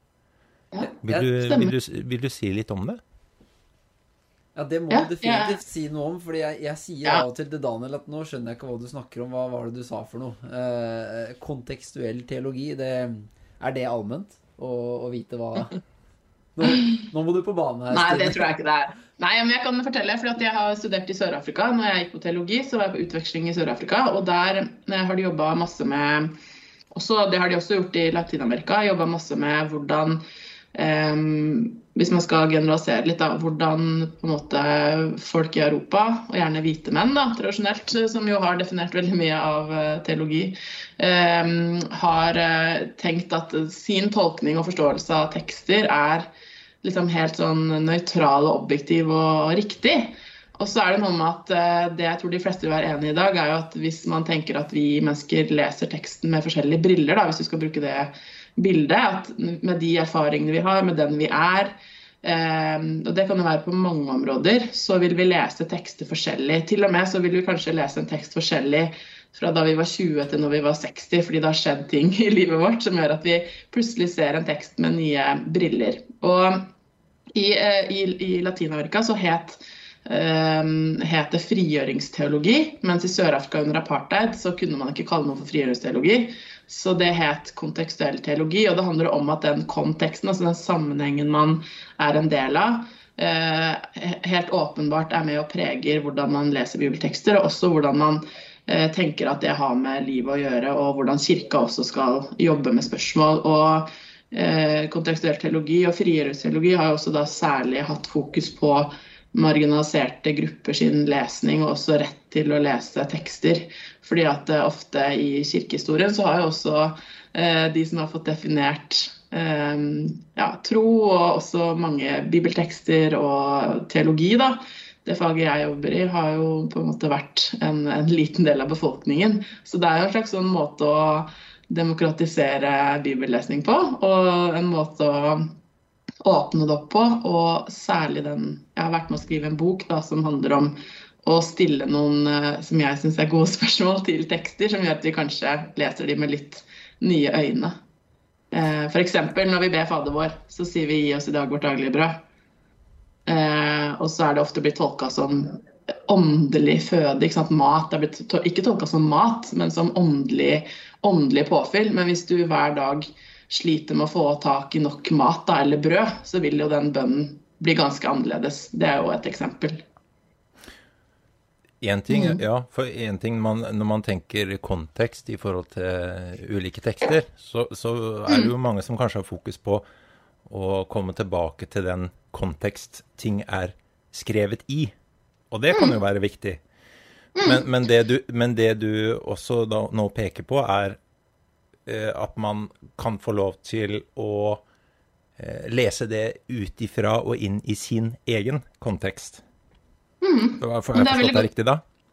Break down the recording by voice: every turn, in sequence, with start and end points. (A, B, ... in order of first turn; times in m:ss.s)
0:00.7-0:01.7 A
0:01.0-0:03.0 B
0:04.5-0:15.8 C
0:04.9-0:05.6 A
0:16.6-0:18.4 C
0:16.7-0:16.9 A
0:17.9-0:26.3 A
0:26.9-0:30.2 A
0:30.7-0:46.3 A
0:46.8-1:16.7 A
1:17.3-2:15.5 A
2:16.2-2:27.7 A
2:28.5-2:32.2 A
2:33.2-2:49.8 A
2:51.8-2:59.8 B
2:52.1-2:52.4 A
2:58.3-2:58.5 A
3:00.4-3:04.9 B
3:05.5-3:06.6 B
3:05.7-3:06.0 A
3:07.4-3:07.7 A
3:07.4-3:11.0 B
3:11.8-3:14.6 B
3:15.4-3:19.4 B
3:20.2-3:21.5 A
3:20.6-3:21.8 B